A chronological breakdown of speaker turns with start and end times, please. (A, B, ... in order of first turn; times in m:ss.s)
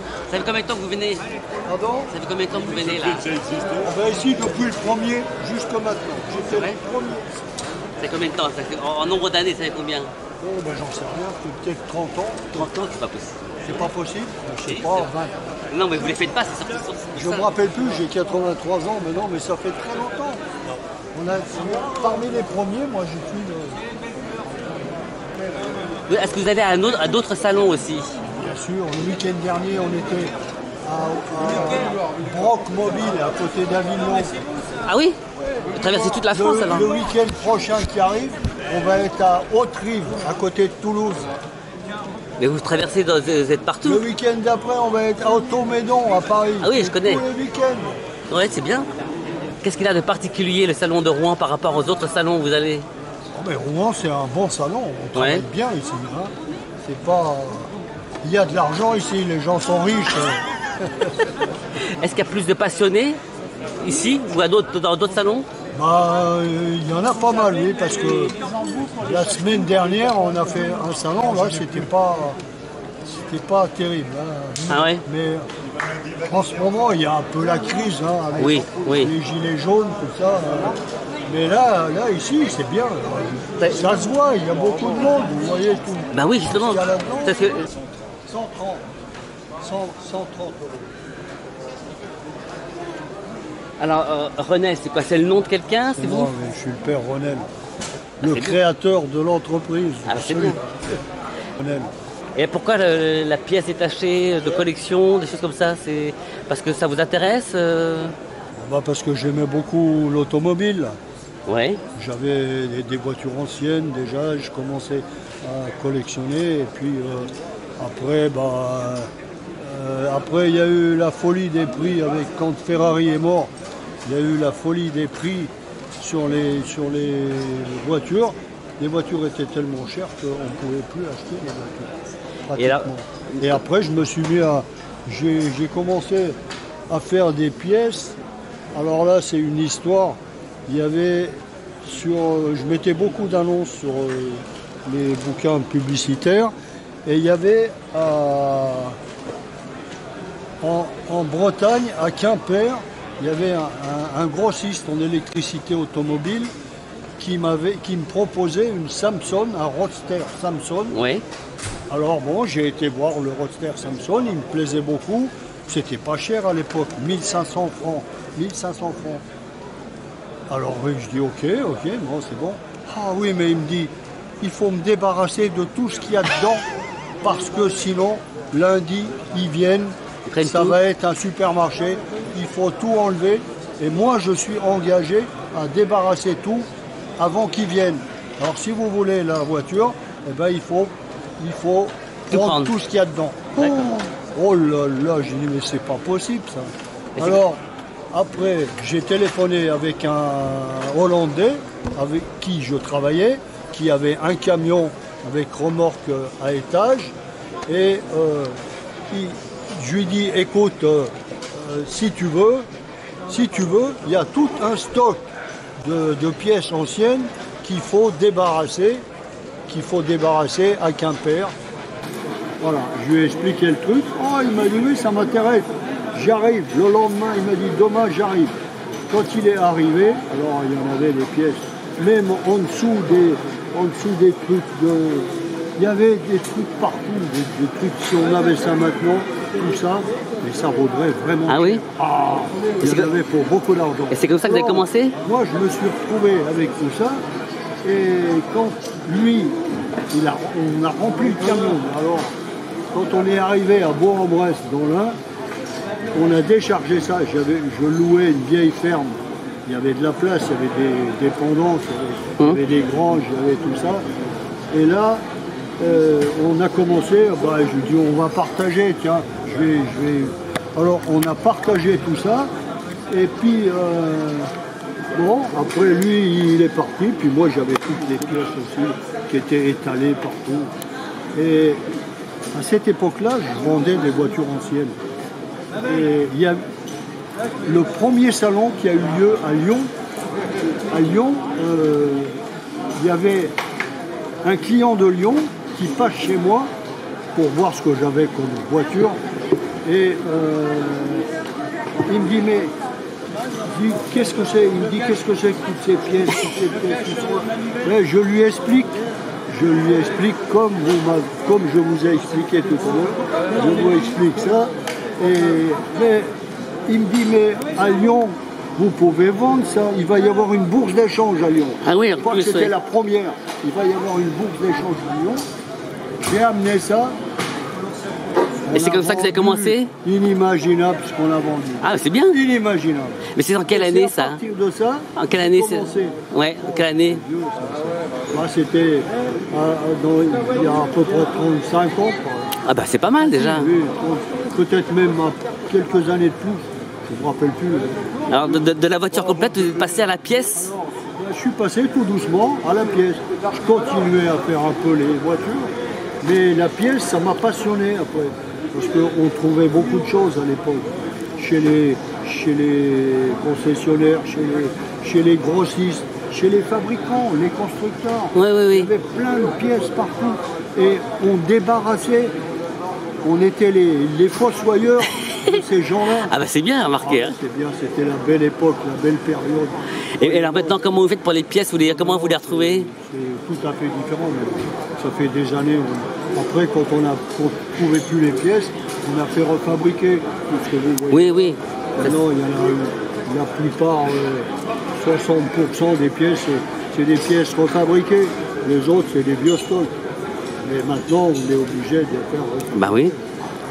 0:00.3-0:01.2 A
0:01.6-0:02.1 B
0:02.1-0:03.4 A
0:03.8-0:07.4 B
0:06.5-0:06.8 A
0:08.0-0:10.1 A
0:10.4-0:13.0 B
0:12.6-0:13.5 A
0:13.6-0:15.4 B
0:14.6-0:15.1 A
0:15.7-0:17.5 A
0:17.1-0:20.4 B
0:21.1-0:23.8 B
0:26.1-0:28.1 A
0:28.3-0:30.3 B
0:30.8-0:34.3 B
0:34.8-0:35.2 A
0:35.8-0:37.0 A
0:36.2-0:41.3 B
0:42.4-0:44.0 A
0:43.8-0:48.0 B
0:46.6-0:47.2 A
0:48.3-0:48.9 A
0:49.6-0:52.8 A
0:53.3-0:57.7 B
0:55.1-0:55.4 A
0:58.2-1:01.1 B
1:01.8-1:03.2 A
1:03.8-1:05.5 A
1:05.7-1:08.4 B
1:09.0-1:12.4 B
1:13.0-1:15.4 B
1:14.7-1:15.0 A
1:16.3-1:27.6 B
1:18.4-1:19.1 A
1:26.1-1:27.6 A
1:28.3-1:28.8 B
1:29.6-1:30.9 B
1:33.8-1:36.3 A
1:36.0-1:37.5 B
1:38.2-1:40.8 B
1:38.2-1:38.6 A
1:40.1-1:40.6 A
1:41.6-1:41.9 B
1:42.3-1:48.1 A
1:48.5-1:50.9 B
1:51.5-1:51.8 A
1:51.9-1:59.1 B
1:59.6-2:03.5 B
2:04.0-2:11.9 B
2:12.5-2:16.4 B
2:12.6-2:13.6 A
2:16.9-2:18.2 B
2:18.7-2:26.5 B
2:27.0-2:29.0 B
2:30.6-2:36.5 B
2:37.2-2:41.0 B
2:40.9-2:41.2 A
2:41.9-2:49.2 B
2:50.5-2:56.6 B
2:57.2-3:17.6 B
3:00.2-3:00.8 A
3:12.3-3:12.7 A
3:17.2-3:17.4 A
3:18.1-3:27.1 B
3:27.7-3:28.6 B
3:29.1-3:32.7 B
3:33.3-3:35.2 B
3:35.8-3:39.0 B
3:39.7-3:41.5 B
3:42.6-3:48.5 B
3:49.1-4:07.2 B
4:01.5-4:01.8 A
4:02.8-4:03.1 A
4:04.1-4:05.2 A
4:07.8-4:09.5 B
4:10.1-4:12.3 B
4:12.9-4:15.2 B
4:16.1-4:24.0 B
4:24.7-4:25.2 B
4:25.8-4:32.5 B
4:33.1-4:34.5 B
4:35.1-4:40.7 B
4:41.3-4:41.8 B
4:42.5-4:45.0 B
4:45.8-4:46.6 B
4:47.6-4:49.9 B
4:50.9-4:52.3 B
4:53.0-4:53.5 B
4:54.4-4:56.7 B
4:57.3-4:59.2 B
4:59.8-5:01.3 B
5:02.1-5:02.7 B
5:03.6-5:16.3 B
5:16.9-5:25.4 B
5:21.8-5:22.7 A
5:26.2-5:27.2 B
5:28.6-5:42.5 B
5:28.7-5:29.9 A
5:31.8-5:32.4 A
5:33.3-5:34.4 A
5:35.2-5:37.2 A
5:42.6-5:43.7 A
5:43.2-6:12.3 B
5:48.3-5:50.7 A
6:08.3-6:08.9 A
6:13.2-6:16.3 B
6:15.2-6:15.6 A
6:16.1-6:17.4 A
6:17.0-6:20.8 B
6:20.2-6:22.9 A
6:21.8-6:39.9 B
6:31.1-6:32.2 A
6:40.6-6:43.2 B
6:42.7-6:43.1 A